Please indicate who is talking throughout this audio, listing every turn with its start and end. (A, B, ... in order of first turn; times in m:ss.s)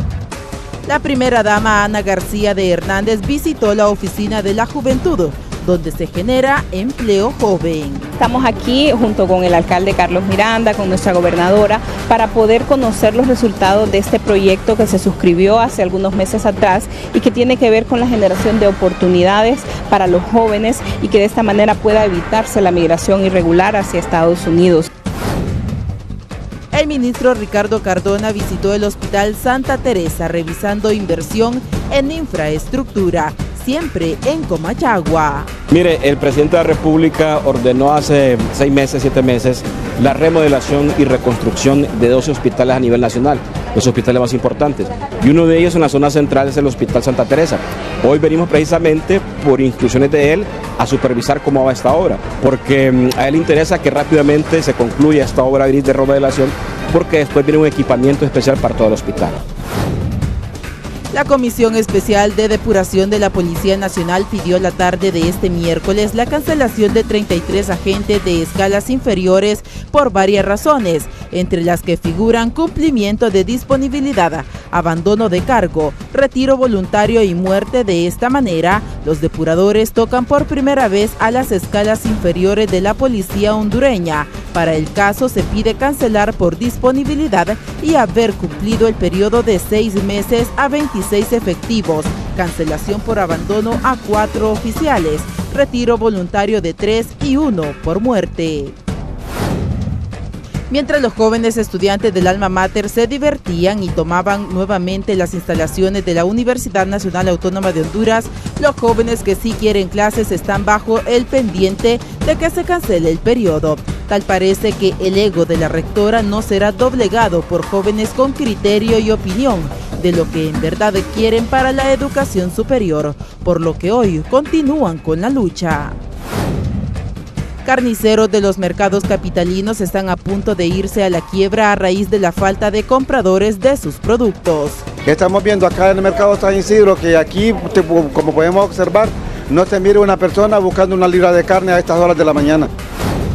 0:00.8-0:08.1 A
0:08.2-0:24.9 B
0:26.7-0:35.5 A
0:35.7-0:59.4 C
1:01.1-1:38.7 A
1:40.7-2:05.9 A
2:07.6-2:14.8 A
2:15.0-2:22.7 D